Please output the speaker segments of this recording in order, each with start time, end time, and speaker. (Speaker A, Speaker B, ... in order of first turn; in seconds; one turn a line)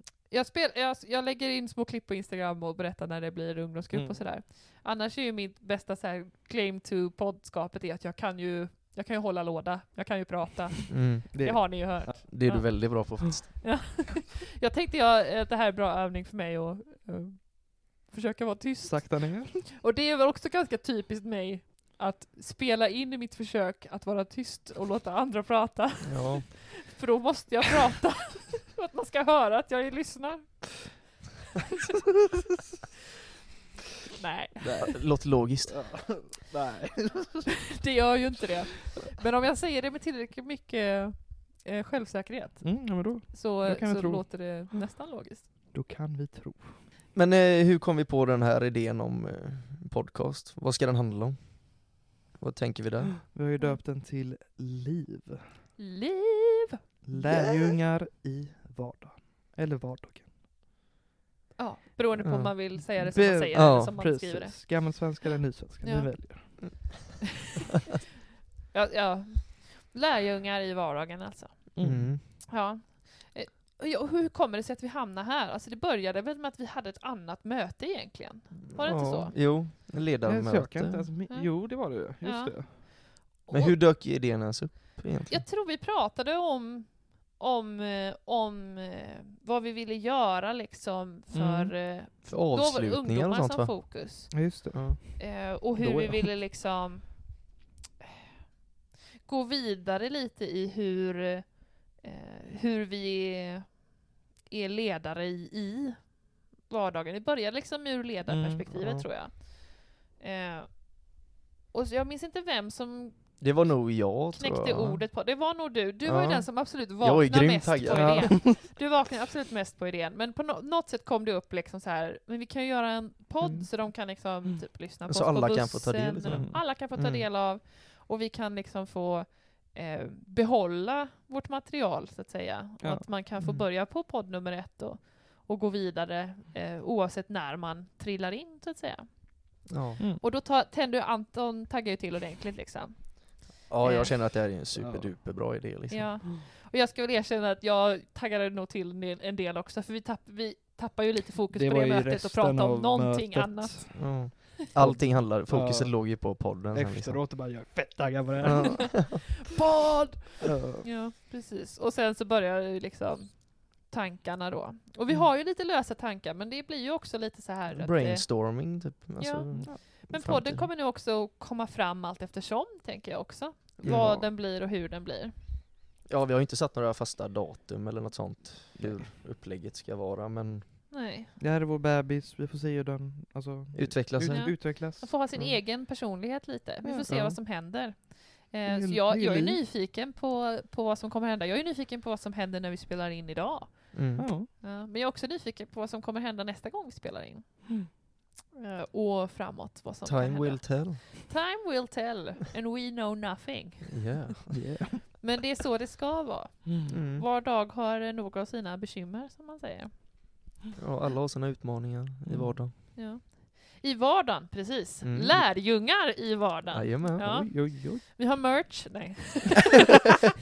Speaker A: 0.3-30.9
Speaker B: 3.9-4.2
Speaker C: 10.9-13.6
Speaker B: 11.3-12.5
Speaker B: 18.8-19.6
Speaker C: 26.1-26.5
Speaker A: 34.2-34.6
Speaker C: 34.6-35.8
Speaker B: 35.5-37.9
Speaker A: 37.7-45.5
Speaker B: 42.6-44.7
Speaker B: 45.7-46.9
Speaker C: 47.1-53.2
Speaker B: 53.3-55.5
Speaker A: 55.8-56.8
Speaker B: 57.0-60.4
Speaker A: 61.6-65.2
Speaker C: 62.2-62.5
Speaker B: 63.0-66.7
Speaker C: 63.5-64.0
Speaker A: 65.8-66.7
Speaker A: 68.7-79.4
Speaker B: 71.8-72.2
Speaker C: 71.8-72.2
Speaker C: 78.6-81.1
Speaker B: 80.2-82.9
Speaker A: 81.3-83.8
Speaker C: 83.5-85.4
Speaker A: 85.3-97.5
Speaker C: 91.3-94.2
Speaker B: 94.3-95.0
Speaker C: 94.7-96.2
Speaker A: 99.2-113.7
Speaker B: 108.3-109.1
Speaker C: 113.4-115.1
Speaker A: 114.3-139.7
Speaker C: 116.0-118.4
Speaker B: 117.9-118.6
Speaker C: 123.4-123.7
Speaker C: 125.1-127.2
Speaker B: 126.3-126.6
Speaker B: 132.8-133.6
Speaker C: 139.7-140.0
Speaker A: 140.2-144.1
Speaker C: 143.7-146.3
Speaker B: 144.8-145.1
Speaker A: 145.9-154.4
Speaker B: 151.5-159.2
Speaker C: 153.9-157.2
Speaker C: 158.4-159.4
Speaker A: 158.6-175.3
Speaker B: 160.4-160.8
Speaker C: 167.7-170.7
Speaker B: 169.6-169.8
Speaker B: 173.8-174.2
Speaker C: 173.8-174.3
Speaker C: 176.1-180.9
Speaker B: 178.8-179.1
Speaker A: 180.9-181.3
Speaker B: 181.4-185.6
Speaker C: 183.7-184.7
Speaker A: 184.3-198.0
Speaker B: 186.8-187.4
Speaker B: 188.7-189.6
Speaker C: 193.9-194.3
Speaker B: 194.2-194.5
Speaker A: 198.6-204.2
Speaker C: 200.1-201.1
Speaker C: 203.9-204.8
Speaker B: 204.5-205.2
Speaker A: 205.1-210.1
Speaker C: 206.9-207.2
Speaker C: 210.8-212.7
Speaker B: 212.3-212.6
Speaker A: 212.9-219.8
Speaker C: 215.0-215.5
Speaker C: 216.7-217.5
Speaker B: 217.3-218.0